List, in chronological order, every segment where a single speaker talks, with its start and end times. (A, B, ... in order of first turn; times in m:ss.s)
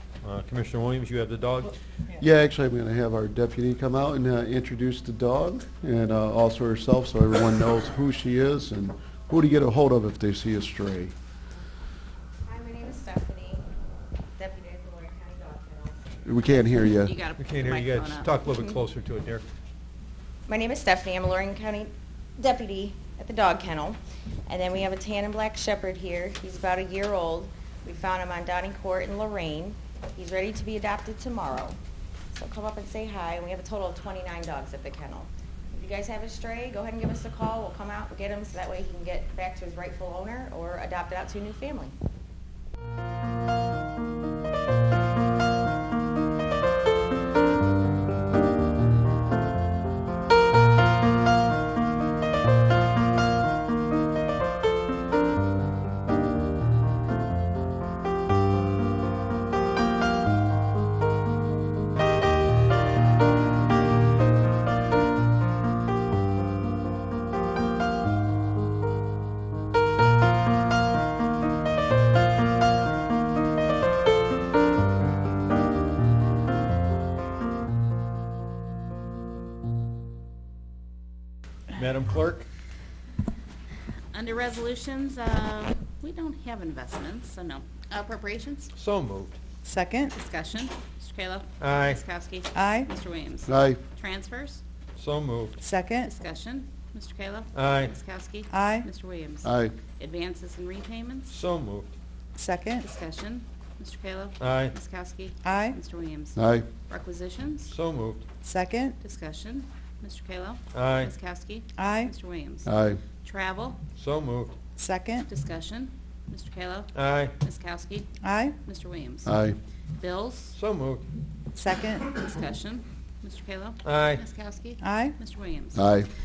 0:00.2-0:01.8 A
0:02.2-0:11.1 B
0:12.4-0:13.6 C
0:14.4-0:16.4 C
0:16.2-0:17.2 B
0:17.0-0:18.3 D
0:17.4-0:19.4 A
0:20.5-0:31.8 C
0:32.3-0:41.9 C
1:21.7-1:22.5 A
1:24.1-1:28.7 D
1:28.8-1:29.4 A
1:29.6-1:30.1 E
1:30.1-1:34.6 D
1:31.6-1:32.0 A
1:32.5-1:32.9 E
1:33.5-1:33.8 B
1:35.0-1:35.6 A
1:35.6-1:36.1 E
1:36.0-1:41.4 D
1:37.5-1:38.0 A
1:38.5-1:38.9 E
1:39.4-1:39.7 B
1:41.3-1:41.9 A
1:42.4-1:42.8 E
1:42.8-1:47.8 D
1:44.4-1:44.8 A
1:45.4-1:45.8 E
1:46.4-1:46.7 B
1:47.7-1:48.3 A
1:48.4-1:49.0 E
1:49.0-1:52.7 D
1:50.7-1:51.1 A
1:51.8-1:52.1 E
1:52.7-1:53.0 B
1:53.2-1:53.8 D
1:54.0-1:54.6 A
1:54.8-1:55.3 E
1:55.3-1:59.4 D
1:56.9-1:57.4 A
1:58.2-1:58.6 E
1:59.3-1:59.6 B
2:00.0-2:00.6 D
2:00.6-2:01.0 A
2:01.6-2:02.1 E
2:02.1-2:05.9 D
2:03.8-2:04.2 A
2:04.8-2:05.2 E
2:05.8-2:06.1 B